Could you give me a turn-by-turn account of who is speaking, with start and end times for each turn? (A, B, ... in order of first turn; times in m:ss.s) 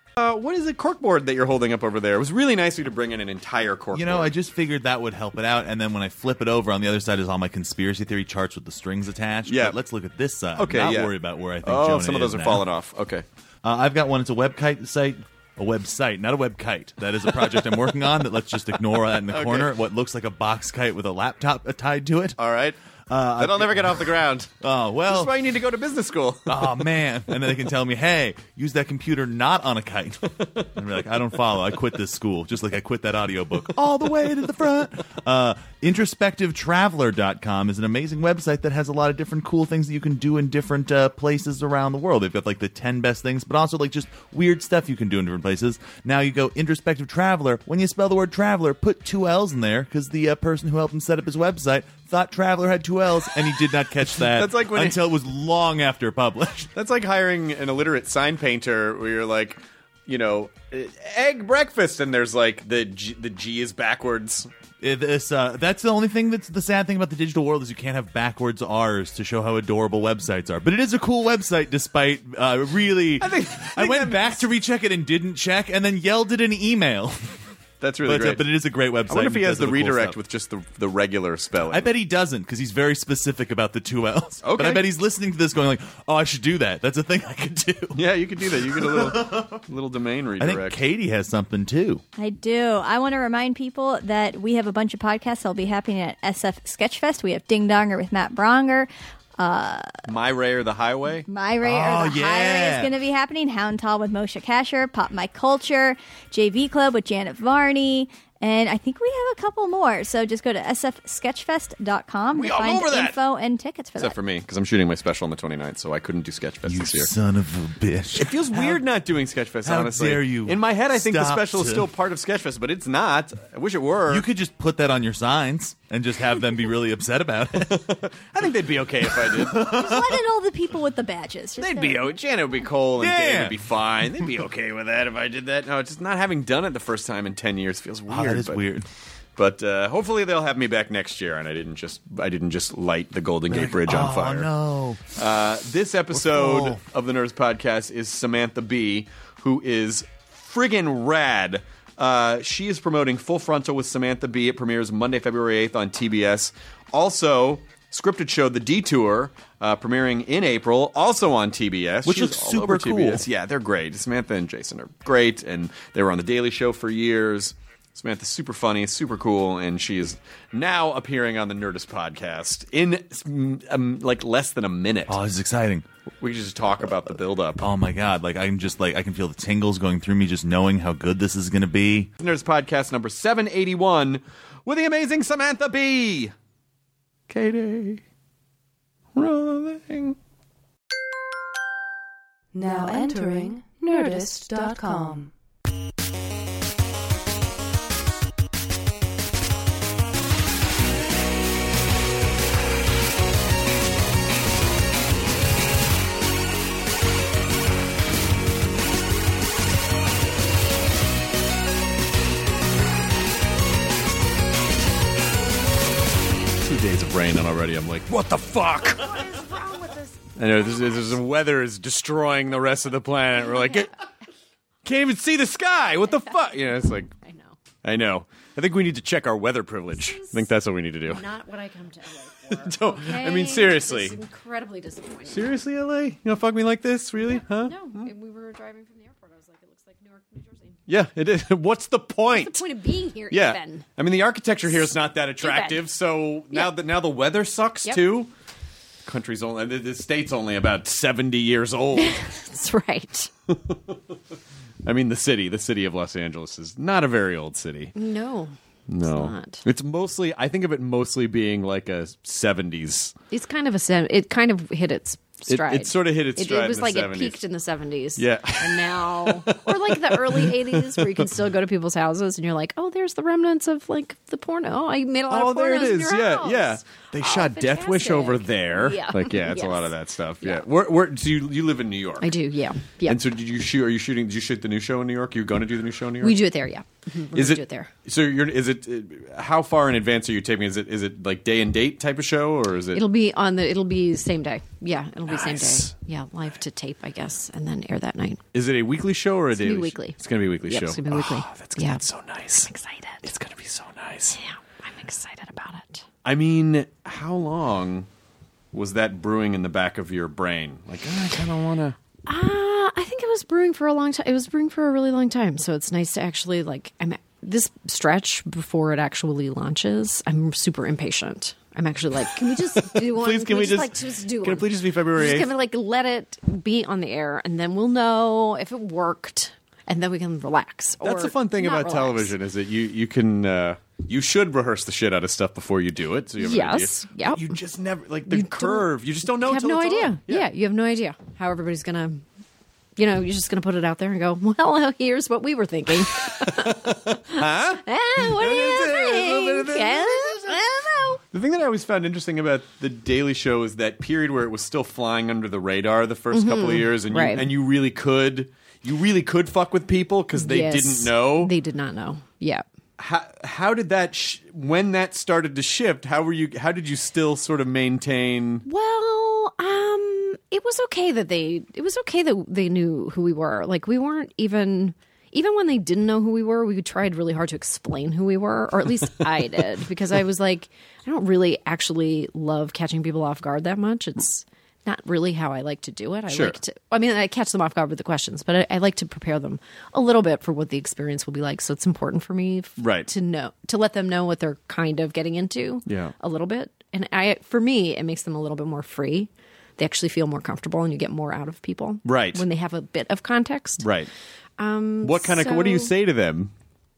0:00.2-0:04.3 A
0:03.9-0:12.6 B
0:09.5-0:09.8 A
0:10.6-0:13.2 A
0:13.6-0:22.4 B
0:19.3-0:19.7 A
0:22.4-0:22.8 A
0:23.1-0:25.3 B
0:23.4-0:24.5 A
0:25.0-0:26.6 A
0:26.5-0:56.7 B
0:30.4-0:30.7 A
0:54.3-0:55.0 A
0:56.7-1:04.5 A
1:04.8-1:17.4 B
1:13.2-1:14.4 A
1:17.8-1:18.4 A
1:18.0-1:20.2 B
1:19.1-1:21.9 A
1:21.7-1:28.0 B
1:24.4-1:24.9 A
1:27.9-1:30.8 A
1:28.7-1:29.6 B
1:30.4-1:32.0 B
1:32.2-1:40.0 C
1:40.0-1:41.2 A
1:41.3-1:54.2 C
1:41.6-1:42.9 B
1:52.3-1:53.2 A
1:54.0-1:57.1 A
1:56.6-1:58.8 B
1:58.1-2:04.2 A
1:59.6-2:01.9 B
2:04.1-2:07.9 B
2:07.6-2:09.8 A
2:09.3-2:10.1 B
2:09.5-2:12.1 C
2:11.6-2:18.6 A
2:13.0-2:13.6 B
2:18.1-2:18.8 B
2:19.4-2:24.5 A
2:23.5-2:25.0 B
2:25.1-2:55.2 A
2:26.1-2:26.8 B
2:42.0-2:43.2 B
2:55.1-2:55.8 B
2:56.2-2:57.7 A
2:57.6-3:02.1 B
3:02.2-3:06.3 A
3:07.3-3:08.0 A
3:09.1-3:10.2 A
3:12.5-3:15.3 D
3:36.6-3:39.1 A
3:38.9-3:41.1 E
3:40.4-3:43.9 A
3:43.5-3:43.8 E
3:44.8-3:47.1 A
3:47.1-3:47.6 E
3:47.8-3:51.2 A
3:50.0-3:50.5 E
3:51.1-3:55.4 E
3:52.5-3:54.2 A
3:55.3-3:58.1 A
3:57.6-4:00.8 E
4:00.9-4:02.6 A
4:02.3-4:03.8 E
4:03.3-4:08.3 A
4:05.4-4:05.8 E
4:09.0-4:12.2 A
4:12.0-4:13.3 E
4:13.5-4:14.0 A
4:14.8-4:17.9 A
4:17.9-4:19.6 E
4:18.9-4:23.1 A
4:23.3-4:39.9 E
4:25.5-4:27.4 A
4:28.2-4:31.2 A
4:35.3-4:42.3 A
4:42.2-4:43.2 E
4:43.0-4:46.4 A
4:46.2-4:47.9 E
4:47.3-4:53.0 A
4:52.9-4:58.4 E
4:55.3-4:55.9 A
4:58.5-5:02.7 A
4:59.6-5:02.0 E
5:02.6-5:03.2 E
5:03.2-5:04.4 A
5:04.3-5:06.0 E
5:06.2-5:08.1 A
5:08.7-5:12.0 A
5:12.2-5:32.3 E
5:22.8-5:25.5 A
5:31.0-5:40.5 A
5:36.4-5:37.5 E
5:38.3-5:42.2 E
5:43.0-5:51.2 E
5:46.4-5:50.6 A
5:51.3-6:01.5 A
5:56.3-5:57.5 E
6:00.4-6:02.6 E
6:03.0-6:08.6 A
6:08.6-6:43.8 E
6:26.3-6:26.6 A
6:32.8-6:33.1 A
6:35.9-6:36.1 A
6:42.0-6:42.4 A
6:43.8-6:44.1 A
6:44.6-6:45.9 E
6:45.0-6:46.5 A